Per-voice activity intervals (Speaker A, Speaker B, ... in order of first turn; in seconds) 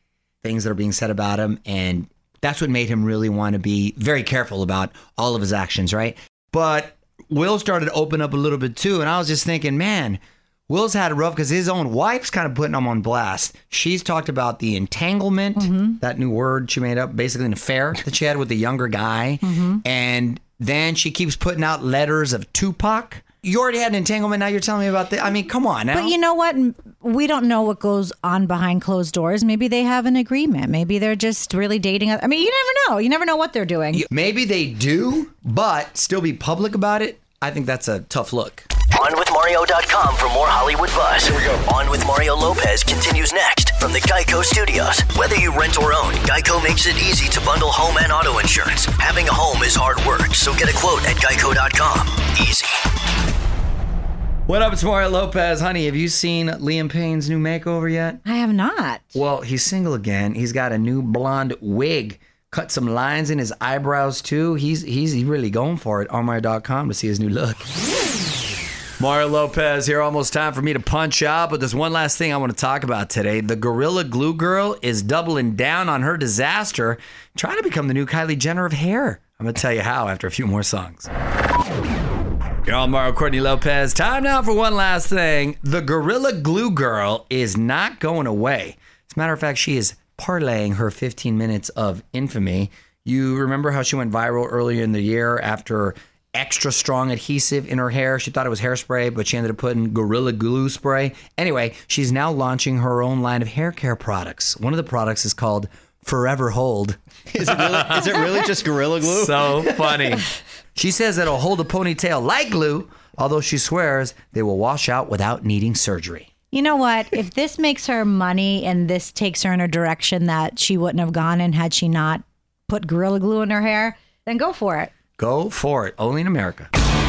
Speaker A: 0.4-26.1, 33.9-38.6, 54.5-58.2, 59.1-67.7, 69.0-81.1, 82.7-108.3, 109.1-110.2, 110.7-116.3, 125.2-126.7
Speaker B: 15.6-16.0, 19.4-19.8, 25.9-34.0, 58.2-59.2, 116.5-124.9
Speaker C: 38.9-52.8
Speaker D: 107.3-110.1